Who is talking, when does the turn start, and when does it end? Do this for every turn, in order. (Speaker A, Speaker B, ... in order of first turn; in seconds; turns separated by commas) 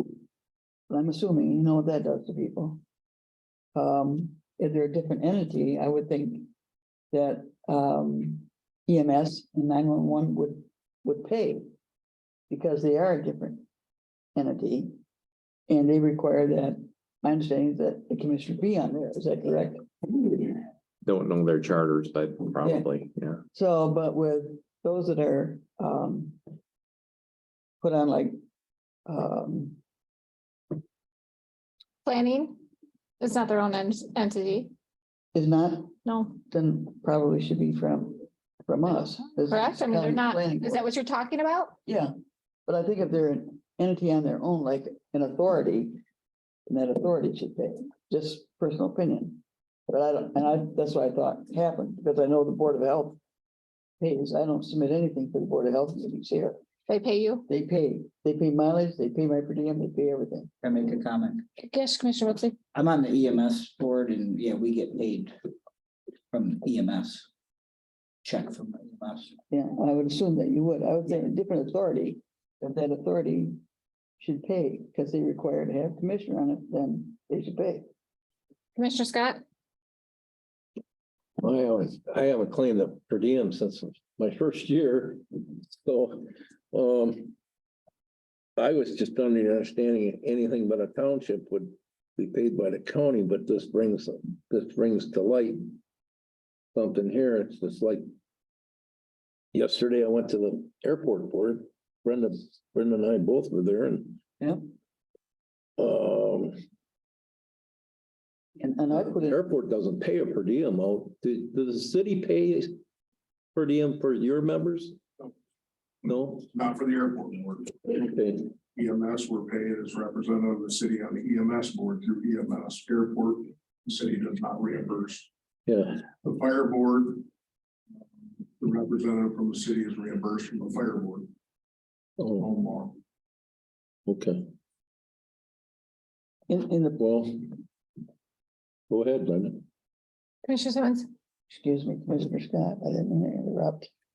Speaker A: 0.9-2.8, Speaker A: 3.7-6.5, Speaker A: 7.1-11.6, Speaker A: 12.5-13.6, Speaker A: 14.3-14.9, Speaker A: 15.7-19.9, Speaker B: 21.0-23.4, Speaker A: 22.6-22.9, Speaker A: 23.5-26.4, Speaker A: 27.8-28.4, Speaker A: 29.1-29.8, Speaker C: 32.0-32.6, Speaker C: 33.2-34.7, Speaker A: 35.3-35.9, Speaker C: 36.0-36.3, Speaker A: 36.5-40.8, Speaker C: 39.5-41.7, Speaker A: 41.9-42.1, Speaker A: 42.7-46.0, Speaker A: 46.7-53.2, Speaker A: 54.0-56.6, Speaker C: 56.9-57.5, Speaker A: 57.5-60.5, Speaker D: 60.6-61.4, Speaker C: 61.6-62.5, Speaker D: 62.7-65.3, Speaker D: 66.3-67.3, Speaker D: 68.2-69.3, Speaker A: 69.5-73.6, Speaker A: 74.2-77.8, Speaker C: 78.8-79.4, Speaker E: 81.4-87.3, Speaker E: 88.6-95.6, Speaker E: 96.7-98.0, Speaker E: 99.5-104.2, Speaker E: 105.8-106.6, Speaker A: 108.6-109.4, Speaker E: 108.9-112.8, Speaker E: 113.5-115.0, Speaker E: 116.0-116.5, Speaker F: 116.4-117.8, Speaker E: 117.8-118.5, Speaker F: 118.7-125.3, Speaker E: 125.7-126.0, Speaker F: 126.2-127.3, Speaker F: 128.6-131.3, Speaker E: 132.2-132.5, Speaker F: 132.3-132.9, Speaker E: 134.1-134.4, Speaker A: 136.5-137.0, Speaker E: 137.0-137.6, Speaker E: 138.9-139.6, Speaker C: 140.4-141.1, Speaker A: 141.5-143.9